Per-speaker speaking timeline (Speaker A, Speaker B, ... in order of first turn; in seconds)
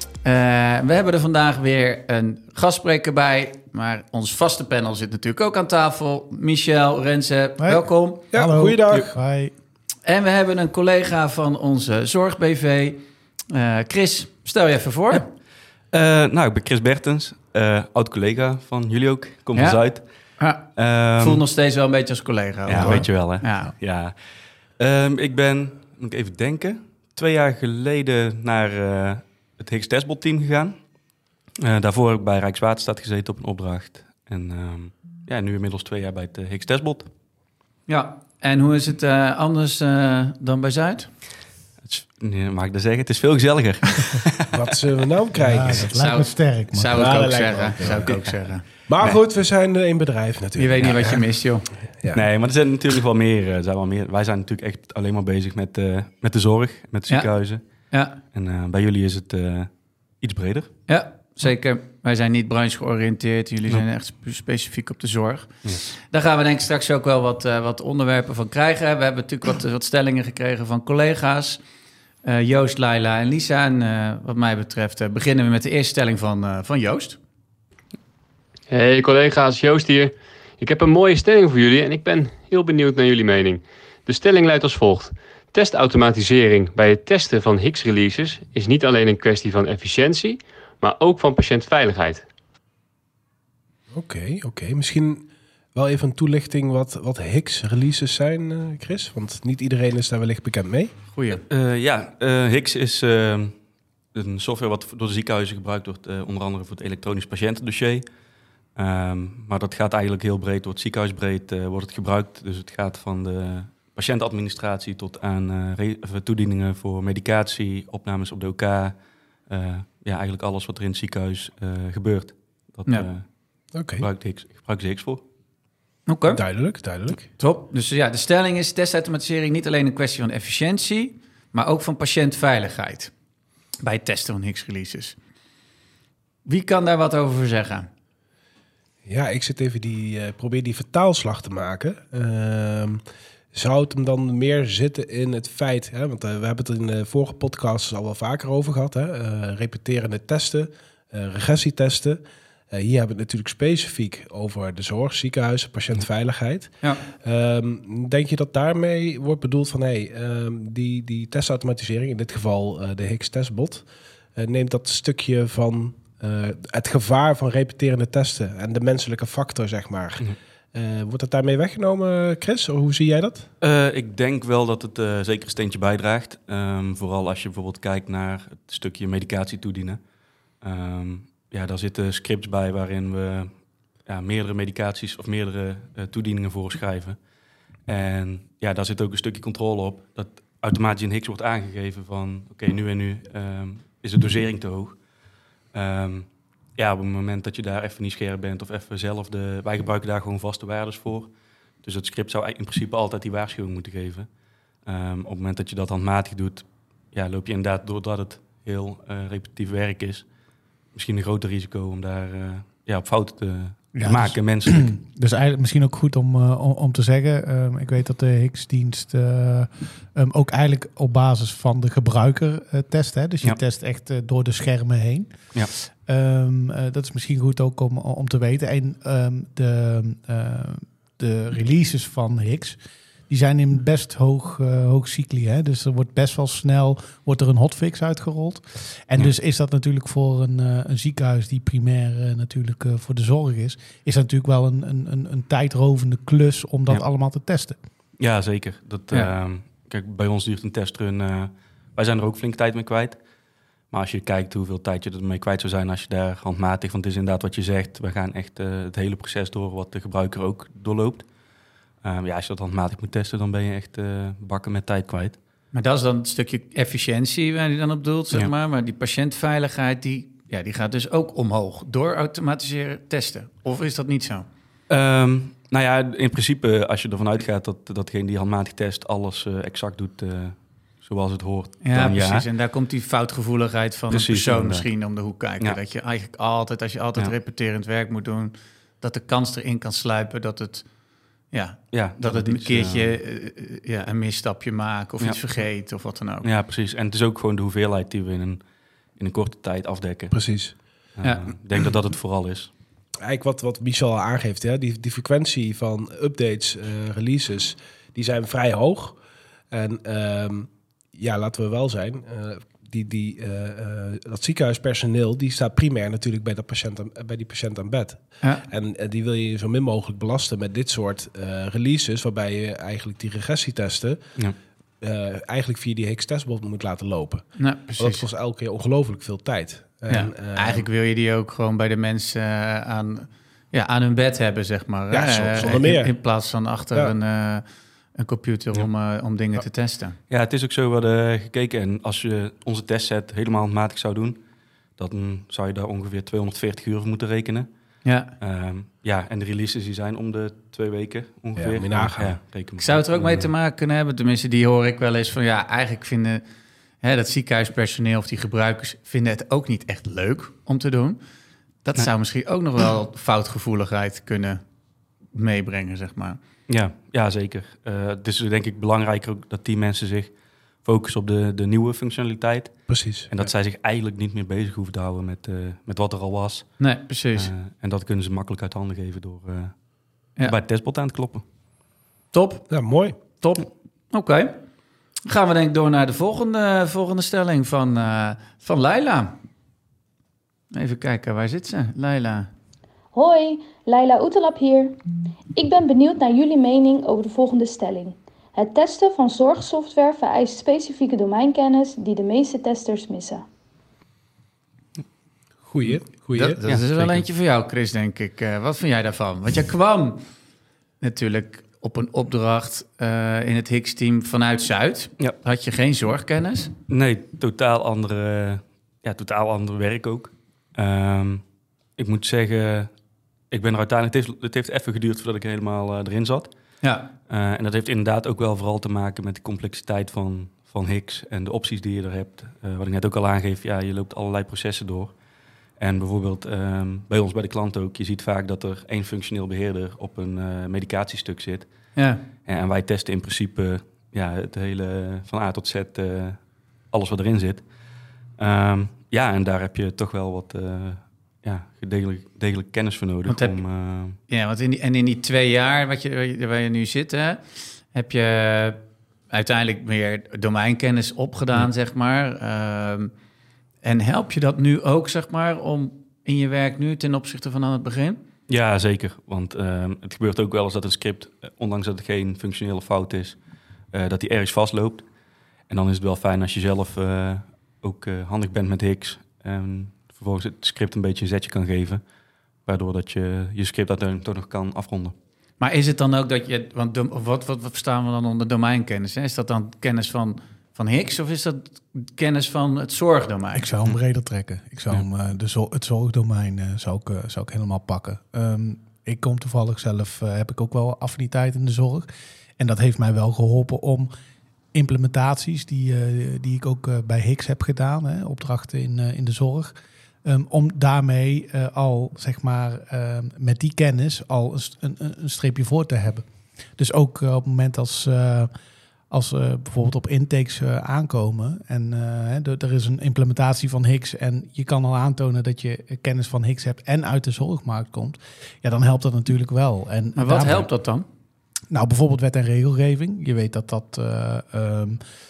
Speaker A: 0.2-8.3, 10.0-15.3, 19.5-19.8, 20.4-20.7, 21.2-23.7, 37.9-41.1, 45.9-48.7, 50.6-51.7, 57.9-58.2, 60.9-71.6, 72.2-77.2, 101.1-101.4, 126.1-126.4, 127.4-133.1, 133.8-135.2, 136.4-137.9, 265.7-274.4, 281.8-290.8, 291.5-296.5, 301.2-301.5, 327.6-328.2, 330.1-340.2, 348.0-348.3, 352.8-356.4, 357.0-361.2, 361.8-364.6, 365.3-366.4, 376.8-377.5, 382.3-382.7, 383.4-384.6, 385.2-389.4, 390.7-392.5, 406.3-410.2, 411.0-416.7, 426.8-427.1, 441.9-442.2, 453.3-453.6, 454.3-458.8, 459.3-463.1, 463.8-468.2, 485.6-493.7, 530.1-531.0
Speaker B: 7.6-9.5, 45.4-47.6, 213.9-225.5, 226.1-247.8, 493.5-502.1, 502.6-504.1, 504.7-509.7, 510.2-516.2, 516.8-518.5, 519.1-530.7, 531.7-535.0
Speaker C: 8.3-9.2, 44.5-45.9, 46.9-48.2, 48.9-51.4, 93.9-100.9, 123.7-124.0, 126.3-127.3, 139.1-143.0, 143.5-152.2, 152.7-173.5, 300.3-300.7, 303.2-309.2, 309.7-324.2, 325.0-330.9, 335.1-336.1, 351.6-352.4, 372.9-373.4, 382.7-383.2, 405.6-406.6
Speaker D: 15.9-20.0, 20.8-21.4, 22.7-24.1, 24.8-30.8, 31.6-37.1, 41.8-44.5, 52.1-57.6, 58.2-59.7, 60.2-60.7, 101.5-103.5, 104.1-108.0, 108.8-118.9, 119.5-123.2, 124.0-125.2, 173.6-180.0, 180.6-183.5, 184.0-187.2, 187.9-195.0, 195.7-201.3, 201.8-204.3, 204.8-210.2, 210.9-214.9, 248.2-253.2, 253.9-261.2, 262.0-265.4, 274.9-282.5, 284.1-284.9, 291.9-293.1, 296.4-298.6, 299.2-300.4, 301.1-302.7, 340.3-344.4, 345.0-347.7, 348.4-353.5, 366.7-370.3, 370.8-376.7, 377.4-379.7, 380.4-381.4, 406.6-407.2, 416.9-421.4, 422.0-422.9, 423.5-426.5, 427.3-435.1, 435.8-441.7, 442.4-446.4, 446.9-447.6, 448.4-454.2, 468.5-473.4, 473.9-475.0, 475.7-482.0, 482.6-485.1
Speaker E: 78.7-92.2
Speaker F: 393.1-395.0, 395.5-403.4